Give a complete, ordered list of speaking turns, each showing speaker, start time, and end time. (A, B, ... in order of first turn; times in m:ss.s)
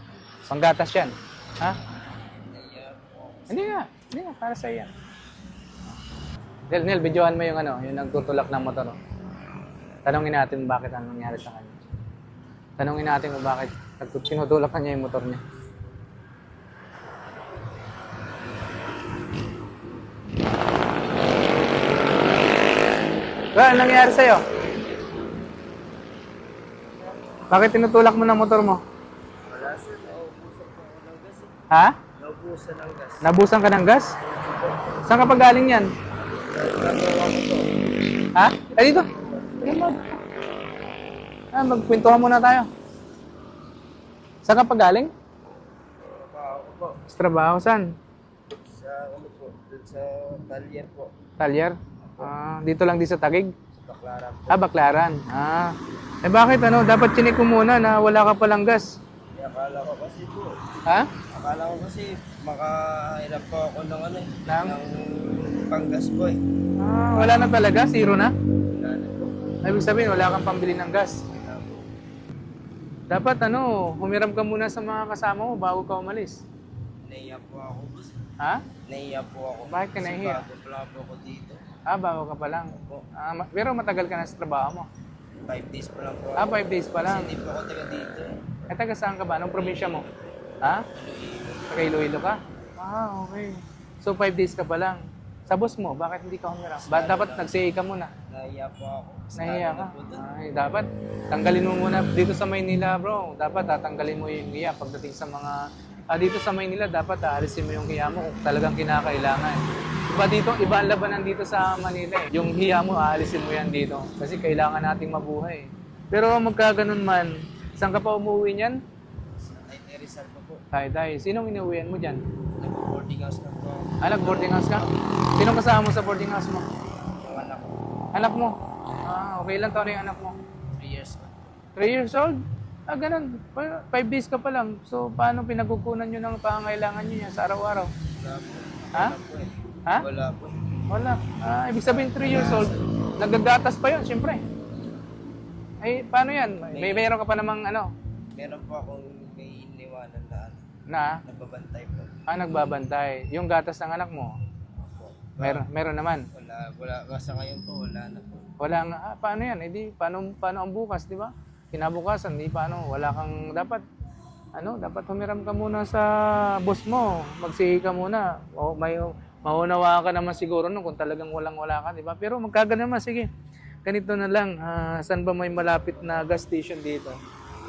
0:00.4-0:01.8 A
0:02.4-0:03.8 B
0:03.5-0:04.9 A
0:06.7-0:09.0 A
0:10.0-0:11.8 A
0:12.8-0:15.4 A
0:23.5-0:24.4 A
0:27.5-0:28.8 A
0:29.5-0:31.5 B
0:31.7-0:32.0 A
0:32.2-0:33.4 B
0:33.2-0:34.2 A
0:34.2-0:35.1 B
0:35.0-0:35.9 A
0:36.1-0:37.6 B
0:38.3-0:39.1 A
0:38.7-0:40.0 B
0:39.6-0:40.2 A
0:41.5-0:42.7 A
0:44.4-0:45.1 A
0:46.0-0:47.0 B
0:47.1-0:47.9 A
0:48.5-0:51.1 B
0:51.4-0:53.5 A
0:52.0-0:52.3 B
0:53.7-0:54.7 B
0:54.5-0:59.0 A
0:59.3-1:00.6 B
1:01.3-1:06.4 B
1:04.4-1:04.8 A
1:06.8-1:08.3 A
1:07.1-1:07.5 B
1:08.5-1:09.3 B
1:09.6-1:11.2 A
1:11.3-1:11.8 B
1:13.1-1:16.4 A
1:17.0-1:18.2 B
1:18.4-1:18.6 A
1:18.8-1:21.6 B
1:19.7-1:20.4 A
1:21.9-1:24.9 A
1:22.7-1:23.0 B
1:25.4-1:28.5 B
1:26.4-1:27.3 A
1:28.7-1:30.0 A
1:29.5-1:30.2 B
1:30.9-1:32.0 B
1:31.7-1:38.1 A
1:36.8-1:37.5 B
1:38.3-1:40.2 B
1:39.3-1:58.8 A
1:59.4-2:00.6 B
2:00.7-2:02.2 A
2:02.6-2:05.2 B
2:04.0-2:06.6 A
2:07.2-2:07.7 B
2:08.1-2:10.4 A
2:10.7-2:11.5 B
2:11.8-2:17.9 A
2:18.1-2:20.6 B
2:20.9-2:24.4 A
2:21.8-2:22.9 B
2:25.8-2:27.9 A
2:26.7-2:27.1 B
2:28.3-2:30.6 B
2:30.9-2:31.2 A
2:31.2-2:32.1 B
2:32.3-2:34.4 A
2:34.8-2:35.6 B
2:35.4-2:36.3 A
2:36.3-2:38.5 B
2:38.6-2:43.8 A
2:44.6-2:53.3 A
2:53.8-2:57.2 A